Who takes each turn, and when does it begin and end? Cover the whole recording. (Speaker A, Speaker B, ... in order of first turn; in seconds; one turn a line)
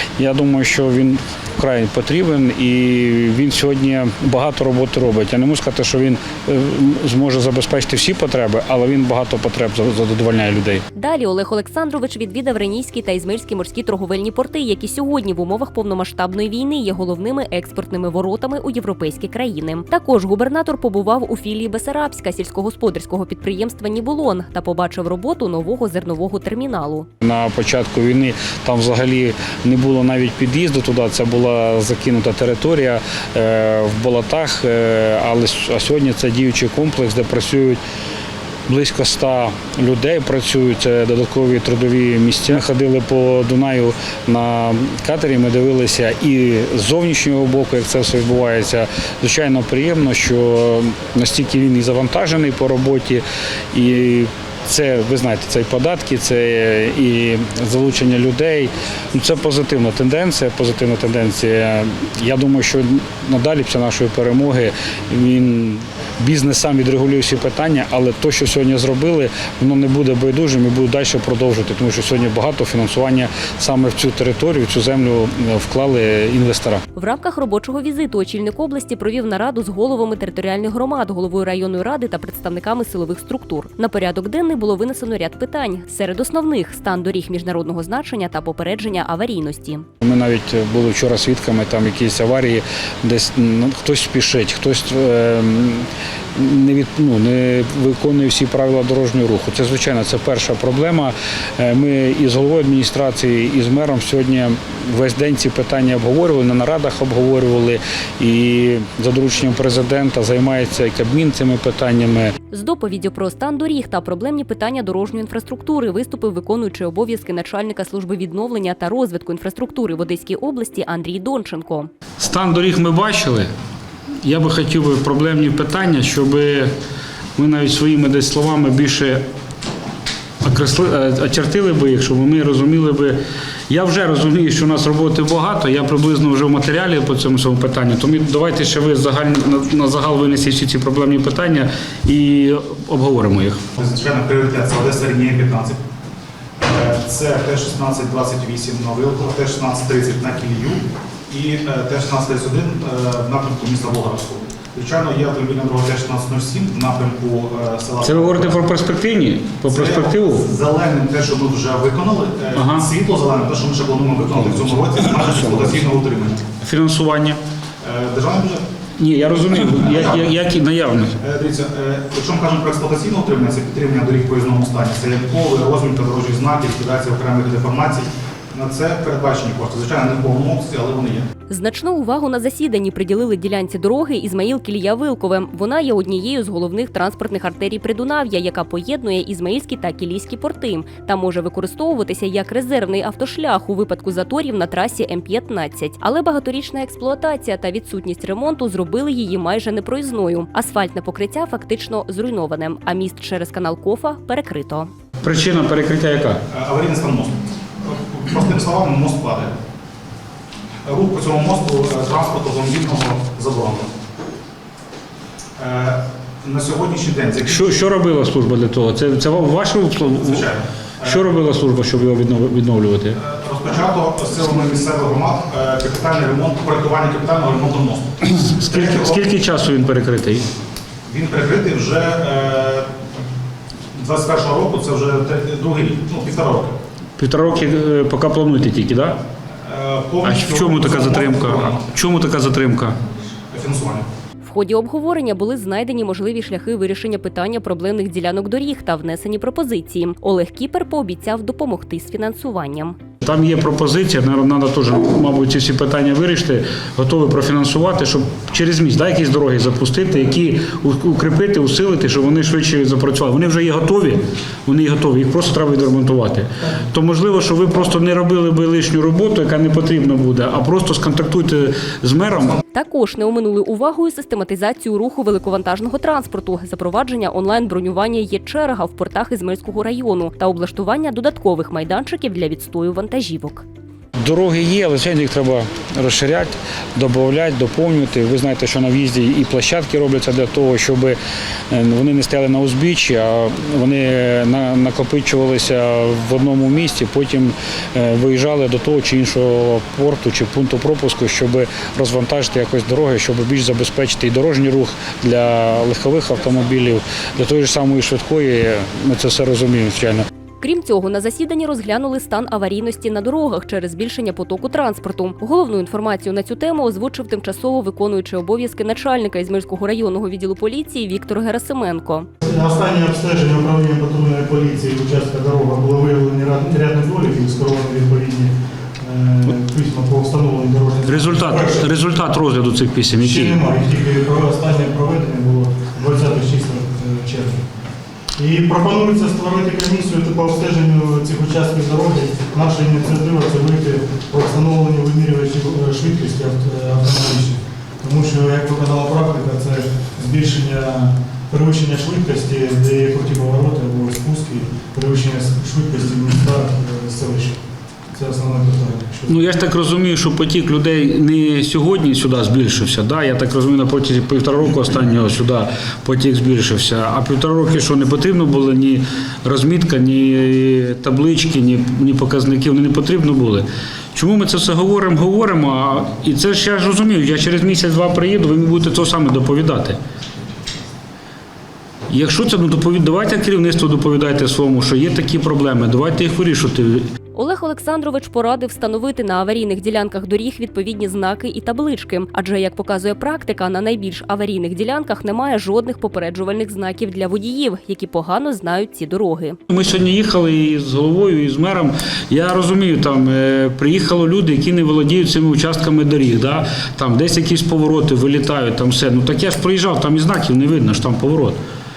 Speaker A: 0.2-10.8
Speaker B: 10.9-27.1
Speaker A: 27.2-37.8
Speaker A: 38.7-76.8
Speaker B: 77.0-89.9
Speaker A: 90.0-112.3
Speaker B: 112.5-121.9
Speaker A: 122.2-123.5
Speaker A: 124.2-126.7
Speaker A: 127.4-129.2
Speaker A: 130.4-133.2
Speaker A: 133.7-143.7
Speaker C: 143.8-145.8
Speaker C: 146.6-158.7
Speaker A: 158.0-160.4
Speaker C: 159.7-166.5
Speaker A: 162.5-162.9
Speaker A: 166.6-167.4
Speaker C: 167.8-168.6
Speaker A: 169.0-171.1
Speaker C: 169.6-170.3
Speaker C: 171.2-181.3
Speaker B: 181.5-204.9
Speaker A: 205.2-206.4
Speaker C: 206.5-209.6
Speaker C: 210.9-213.9
Speaker C: 215.6-217.8
Speaker A: 217.5-220.5
Speaker C: 220.1-221.2
Speaker A: 221.0-223.2
Speaker C: 223.2-229.2
Speaker A: 228.2-230.5
Speaker C: 231.1-232.9
Speaker C: 233.9-236.8
Speaker A: 237.2-239.2
Speaker C: 239.6-241.9
Speaker A: 240.2-243.0
Speaker C: 243.5-244.1
Speaker B: 244.4-253.0
Speaker A: 253.2-272.6
Speaker B: 272.7-283.6
Speaker A: 284.2-291.2
Speaker A: 291.7-310.2
Speaker B: 310.6-322.3
Speaker D: 322.4-331.9
Speaker A: 331.1-333.6
Speaker D: 333.2-337.6
Speaker D: 338.4-357.6
Speaker D: 358.1-359.4
Speaker A: 359.3-380.0
Speaker A: 382.1-387.1
Speaker B: 387.3-399.6
Speaker A: 399.7-411.6